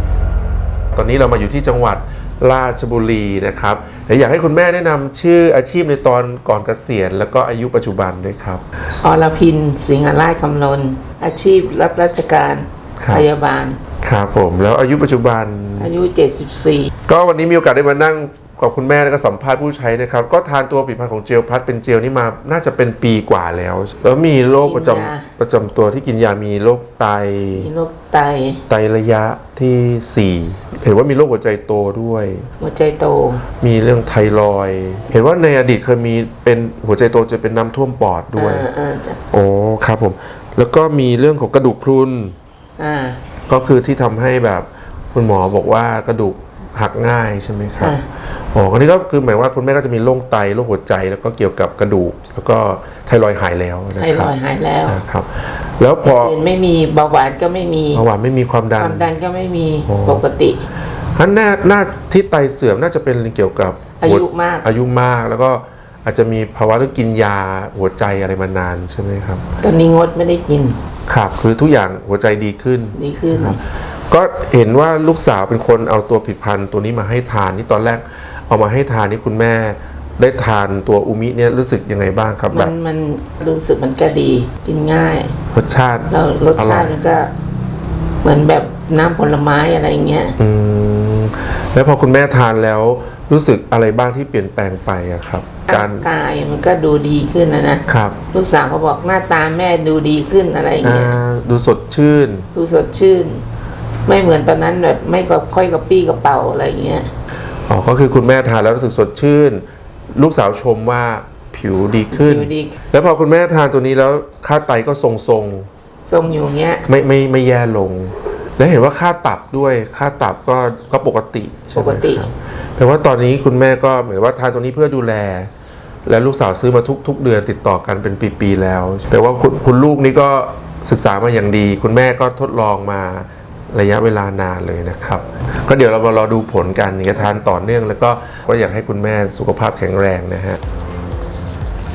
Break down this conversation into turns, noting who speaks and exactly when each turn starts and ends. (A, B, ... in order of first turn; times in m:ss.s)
0:00.9-0:08.6 A
0:09.0-0:13.8 B
0:13.0-0:13.3 A
0:14.0-0:15.9 A
0:15.8-0:16.9 B
0:17.1-0:27.7 A
0:24.6-0:25.3 B
0:27.5-0:28.6 B
0:28.7-0:32.5 A
0:32.6-0:33.4 B
0:33.6-0:38.7 A
0:38.4-0:39.2 B
0:39.3-0:42.3 A
0:42.8-0:43.2 B
0:43.5-0:48.0 A
0:47.8-0:48.0 B
0:48.5-0:54.3 A
0:54.0-0:55.0 B
0:54.9-0:56.4 A
0:56.0-0:58.0 B
0:57.9-0:59.1 A
0:58.8-1:00.6 B
0:59.9-1:00.2 A
1:01.2-1:09.4 A
1:04.0-1:04.7 B
1:09.6-1:10.8 B
1:11.1-1:22.7 A
1:12.9-1:13.6 B
1:22.5-1:25.3 B
1:25.5-1:26.9 A
1:26.1-1:27.3 B
1:28.2-1:30.3 B
1:30.4-1:36.0 A
1:35.7-1:41.2 B
1:37.9-1:38.2 A
1:40.8-1:42.5 A
1:42.5-1:43.4 B
1:44.0-1:47.1 B
1:47.7-1:55.7 A
1:52.1-1:52.8 B
1:56.0-1:56.8 B
1:56.9-2:05.5 A
2:01.7-2:02.3 B
2:06.0-2:20.6 A